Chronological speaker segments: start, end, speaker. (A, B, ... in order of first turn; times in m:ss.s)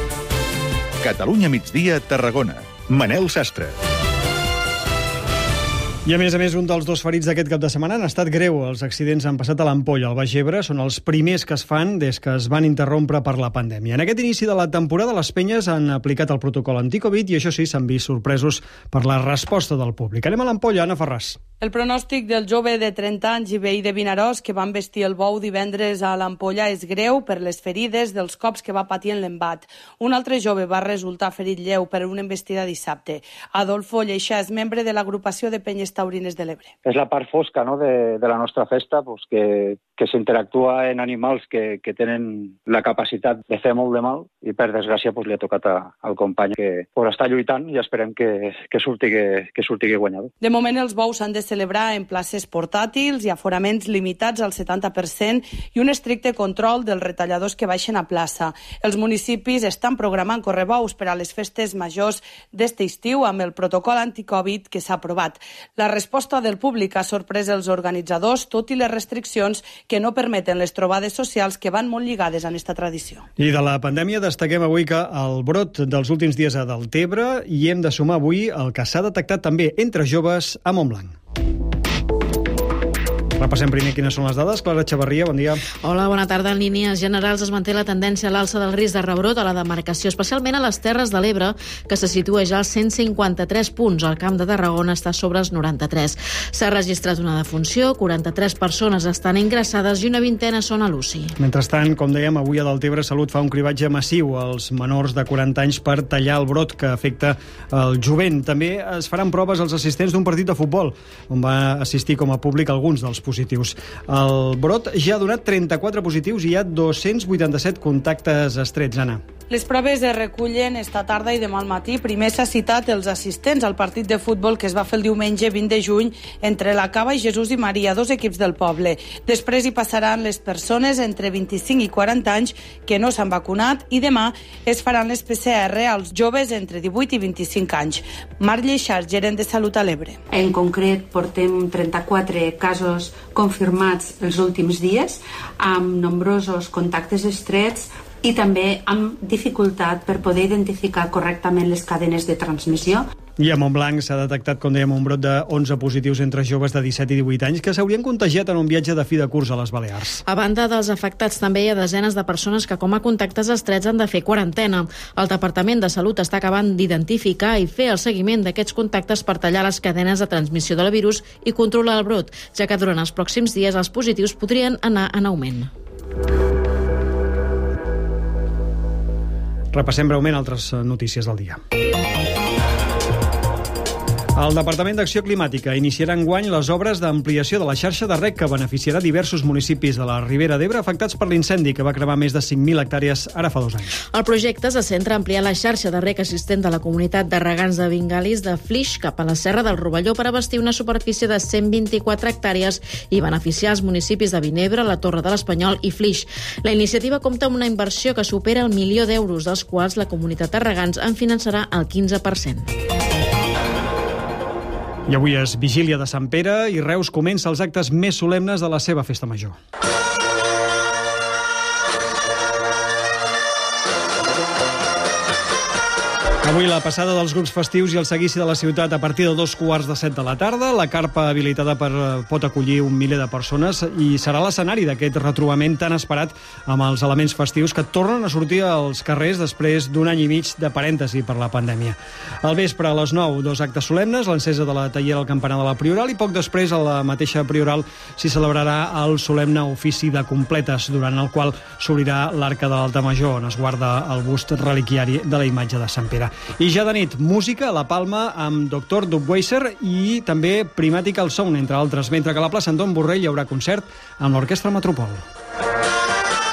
0:01.0-0:03.7 A
0:06.0-0:21.4 B
0:21.6-0:36.7 C
0:36.8-0:50.3 D
0:50.4-1:13.2 C
1:13.4-1:21.2 B
1:23.4-1:25.6 B
1:25.8-1:41.3 E
1:41.4-1:59.2 B
1:59.5-2:20.2 C
2:20.3-2:33.1 F
2:33.4-2:40.2 B
2:40.2-2:55.7 E
2:59.7-3:01.6 B
3:04.3-3:14.0 B
3:14.1-3:32.7 E
3:35.1-3:39.5 B
3:46.4-4:25.2 B